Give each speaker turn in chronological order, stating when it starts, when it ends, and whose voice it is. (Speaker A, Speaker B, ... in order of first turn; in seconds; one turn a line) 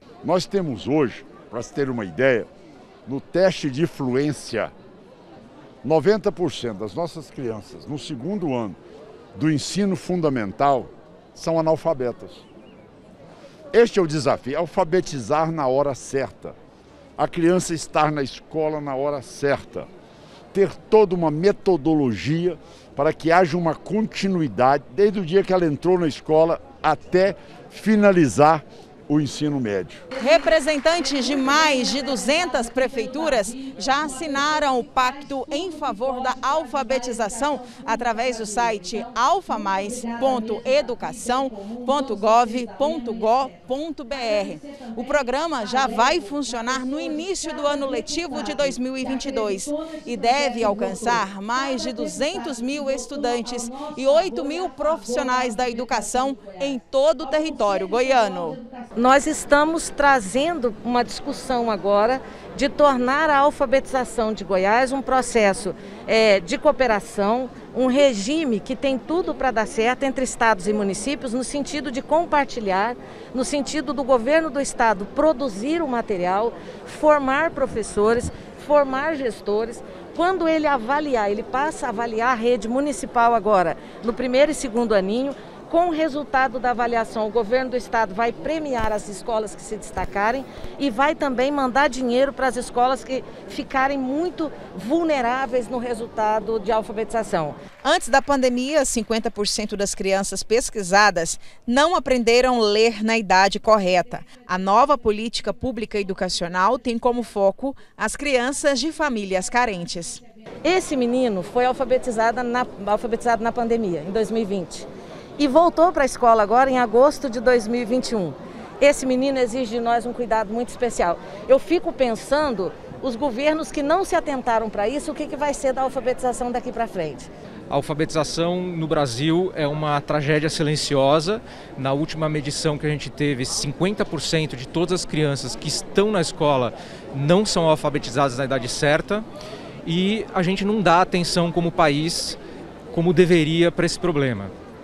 Speaker A: 0.2-2.5
Speaker A: 3.0-4.7
Speaker A: 5.8-8.8
Speaker A: 9.3-12.4
Speaker A: 13.7-16.6
Speaker A: 17.2-19.9
Speaker A: 20.5-30.0
Speaker B: 30.1-58.6
Speaker C: 58.7-97.6
Speaker B: 97.8-110.2
Speaker C: 110.6-127.3
Speaker D: 127.7-139.2
Speaker D: 139.8-142.4
Speaker D: 142.9-144.5